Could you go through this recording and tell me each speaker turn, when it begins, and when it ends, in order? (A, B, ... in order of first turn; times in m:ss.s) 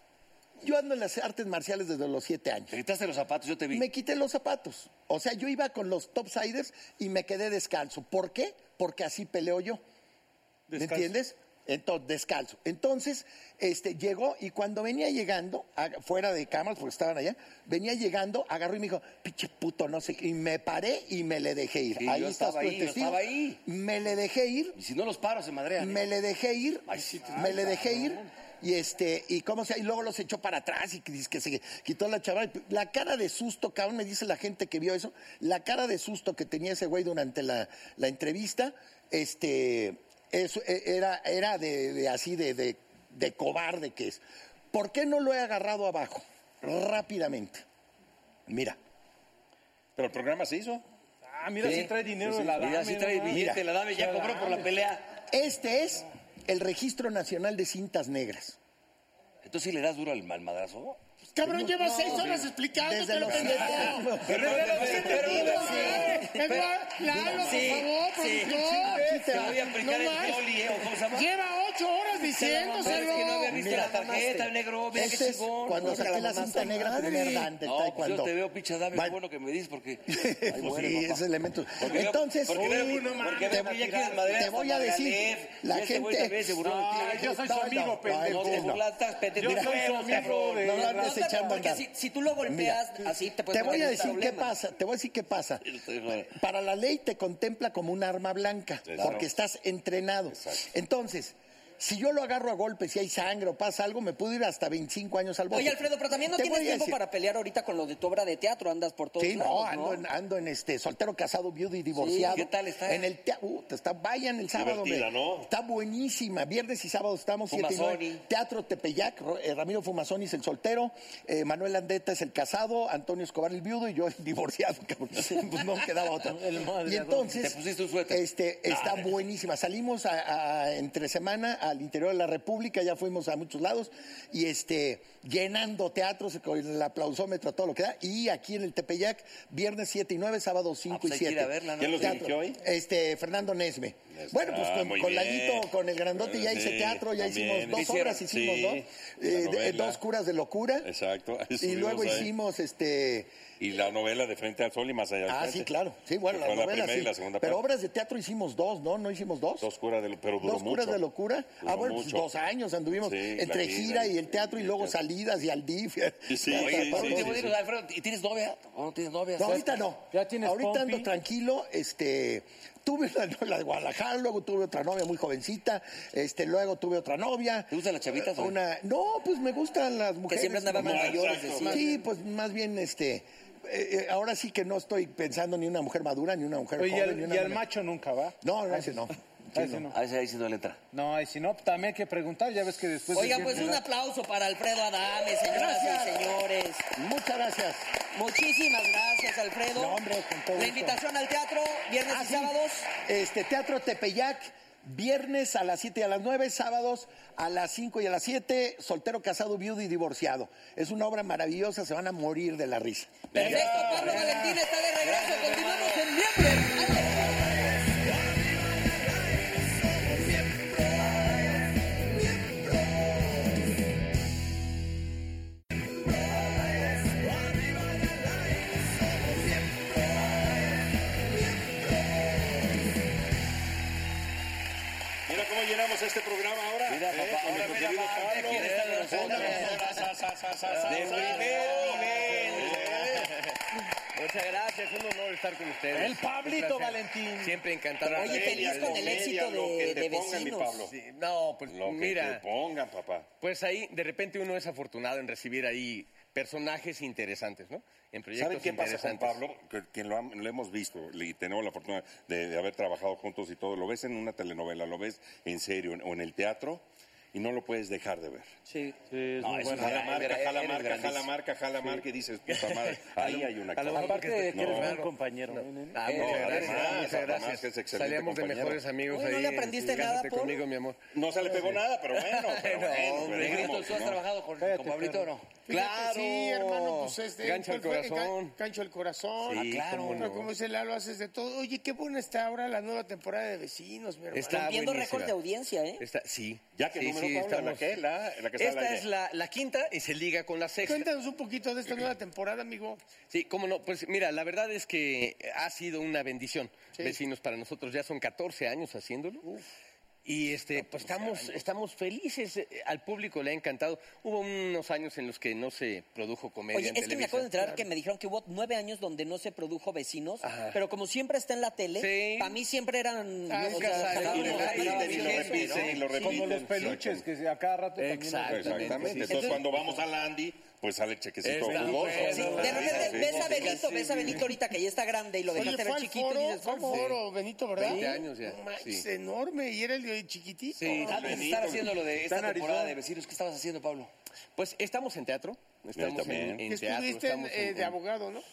0:00.6-0:02.7 A
0:02.7-0:03.8 B
0:03.7-0:09.8 A
0:10.7-0:11.1 C
0:10.7-0:24.8 A
0:22.0-0:23.6 B
0:24.8-0:26.0 B
0:25.8-0:47.6 A
0:26.9-0:27.4 B
0:27.2-0:28.2 C
0:48.5-0:48.8 A
0:50.0-0:50.8 D
0:51.3-0:54.7 C
0:51.6-0:55.2 B
0:53.3-0:53.6 A
0:55.3-0:58.6 A
0:59.4-1:01.0 B
1:01.3-1:13.5 E
1:01.5-1:05.5 A
1:02.0-1:02.4 B
1:04.2-1:11.3 B
1:04.3-1:05.9 C
1:05.1-1:06.3 F
1:07.1-1:07.6 A
1:07.3-1:08.5 F
1:08.8-1:09.6 A
1:12.3-1:17.0 B
1:12.8-1:14.5 F
1:13.5-1:14.2 A
1:14.9-1:18.3 A
1:15.7-1:17.1 F
1:17.6-1:21.2 B
1:18.9-1:19.2 A
1:20.1-1:22.8 A
1:21.8-1:27.4 B
1:22.5-1:24.5 C
1:23.5-1:28.8 A
1:26.6-1:31.7 C
1:28.1-1:30.7 B
1:29.4-1:31.8 A
1:30.7-1:34.5 F
1:32.4-1:32.9 A
1:33.5-1:35.8 A
1:35.7-1:36.3 B
1:36.3-1:47.0 A
1:38.9-1:39.2 D
1:40.3-1:40.6 D
1:45.5-1:50.0 F
1:49.2-2:30.9 A
1:52.0-1:53.0 B
1:54.5-1:55.5 D
1:57.5-1:58.2 B
2:06.3-2:07.4 C
2:07.4-2:09.2 B
2:20.9-2:22.3 B
2:21.8-2:22.6 D
2:24.1-2:30.0 D
2:27.7-2:28.2 B
2:30.8-2:32.3 D
2:31.6-2:33.3 A
2:33.6-2:35.7 D
2:35.2-2:39.7 A
2:36.3-2:37.6 D
2:39.6-2:41.0 D
2:40.4-2:47.6 A
2:41.6-2:42.2 D
2:43.0-2:45.0 D
2:46.3-2:47.4 D
2:46.4-2:49.7 B
2:49.4-3:07.6 A
2:49.4-2:51.1 C
2:57.7-2:58.6 B
3:00.3-3:01.9 F
3:00.8-3:01.8 D
3:06.8-3:09.0 C
3:08.4-3:09.9 A
3:09.5-3:10.0 C
3:09.9-3:10.8 B
3:10.9-3:13.8 C
3:13.1-3:16.9 F
3:15.5-3:16.3 A
3:16.9-3:17.9 A
3:18.1-3:20.0 F
3:19.7-3:21.0 A
3:20.5-3:22.9 F
3:22.1-3:22.5 A
3:23.0-3:33.3 A
3:33.3-3:37.2 F
3:33.3-3:34.2 D
3:33.4-3:35.6 C
3:55.3-4:03.3 D
3:56.8-4:00.0 B
3:58.4-4:00.0 G
3:58.9-3:59.9 C
4:00.6-4:09.2 G
4:00.8-4:02.7 B
4:05.9-4:07.6 C
4:08.0-4:10.9 D
4:08.2-4:10.9 F
4:10.9-4:12.4 G
4:11.7-4:13.3 D
4:13.4-4:19.4 G
4:18.3-4:28.5 D
4:29.0-4:30.0 C
4:29.4-4:31.3 B
4:29.7-4:35.0 D
4:32.4-4:41.6 G
4:33.9-4:37.3 C
4:36.1-4:36.6 B
4:36.1-4:38.8 D
4:39.1-4:40.6 F
4:39.8-4:40.1 C
4:41.1-4:44.2 D
4:41.4-4:41.8 C
4:42.1-4:43.9 G
4:43.1-4:45.6 B
4:44.6-4:45.3 C
4:45.7-4:48.6 G
4:45.7-4:54.7 E
4:49.4-4:50.5 G
4:49.5-4:50.4 B
4:54.3-4:55.3 G
4:54.4-4:56.0 F
4:56.0-5:01.1 G
4:56.7-4:59.1 D
5:00.8-5:03.0 E
5:03.3-5:09.4 G
5:10.2-5:17.8 G
5:11.0-5:11.3 D
5:16.7-5:25.9 F
5:20.4-5:20.8 G
5:22.0-5:22.6 G
5:23.5-5:25.6 E
5:23.7-5:26.4 G
5:23.8-5:27.2 D
5:24.1-5:25.6 B
5:26.1-5:29.7 C
5:28.0-5:29.7 G
5:28.4-5:33.8 D
5:31.4-5:34.4 G
5:31.6-5:33.2 C
5:32.3-5:37.0 F
5:35.5-5:41.4 E
5:36.9-5:37.2 G
5:37.7-5:39.0 G
5:40.8-5:41.5 G
5:40.8-5:42.0 D
5:40.9-5:44.1 B
5:42.2-5:43.0 C
5:44.6-5:48.0 G
5:46.0-5:46.6 D
5:46.6-5:48.4 E